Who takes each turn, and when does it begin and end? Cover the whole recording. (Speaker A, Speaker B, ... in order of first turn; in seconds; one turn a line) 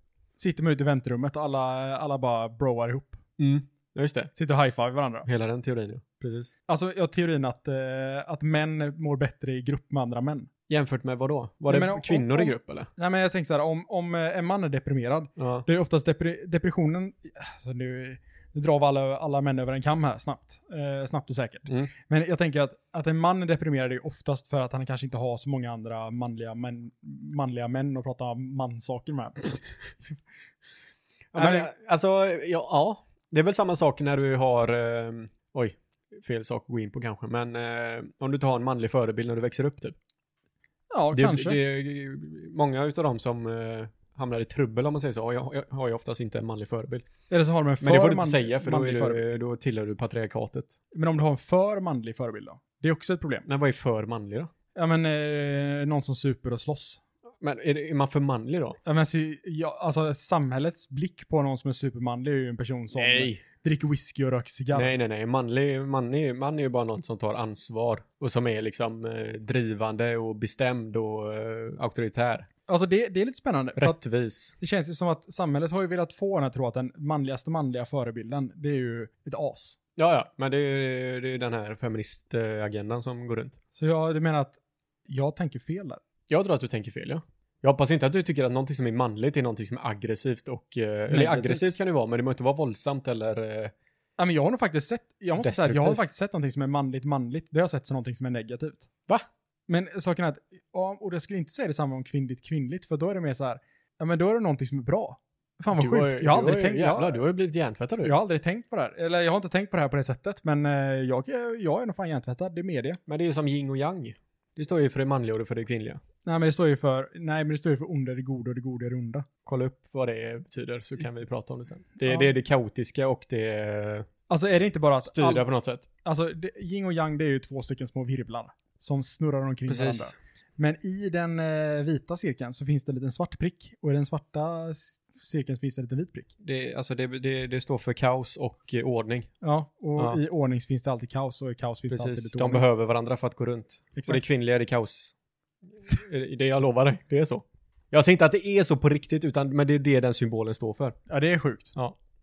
Speaker A: 0.4-3.2
Speaker B: 3.4-4.3
Speaker A: 4.3-5.3
Speaker B: 5.3-6.5
Speaker A: 6.7-10.5
Speaker B: 10.7-12.9
Speaker A: 11.7-30.2
Speaker B: 15.4-15.7
Speaker B: 31.3-40.0
Speaker A: 31.4-31.7
Speaker A: 40.9-41.6
Speaker B: 41.1-47.1
Speaker A: 47.3-49.2
Speaker B: 47.8-50.8
Speaker A: 50.9-53.5
Speaker B: 53.5-54.5
Speaker A: 54.8-57.0
Speaker B: 57.4-58.8
Speaker A: 58.9-64.9
Speaker B: 62.9-63.4
Speaker B: 64.7-72.5
Speaker A: 72.7-74.0
Speaker B: 73.8-74.5
Speaker A: 74.6-79.8
Speaker B: 80.0-83.6
Speaker A: 83.8-86.0
Speaker B: 86.3-93.7
Speaker A: 91.1-91.7
Speaker A: 94.2-98.9
Speaker B: 95.4-96.1
Speaker A: 99.7-107.2
Speaker B: 105.7-108.1
Speaker A: 108.0-113.0
Speaker B: 113.1-116.0
Speaker A: 116.2-119.3
Speaker B: 119.5-124.1
Speaker A: 122.0-122.3
Speaker A: 124.3-125.5
Speaker B: 125.1-125.9
Speaker A: 126.0-136.3
Speaker B: 129.7-130.1
Speaker B: 136.4-139.3
Speaker A: 139.4-142.7
Speaker B: 141.9-145.1
Speaker A: 144.0-144.2
Speaker B: 145.7-151.0
Speaker A: 151.1-151.8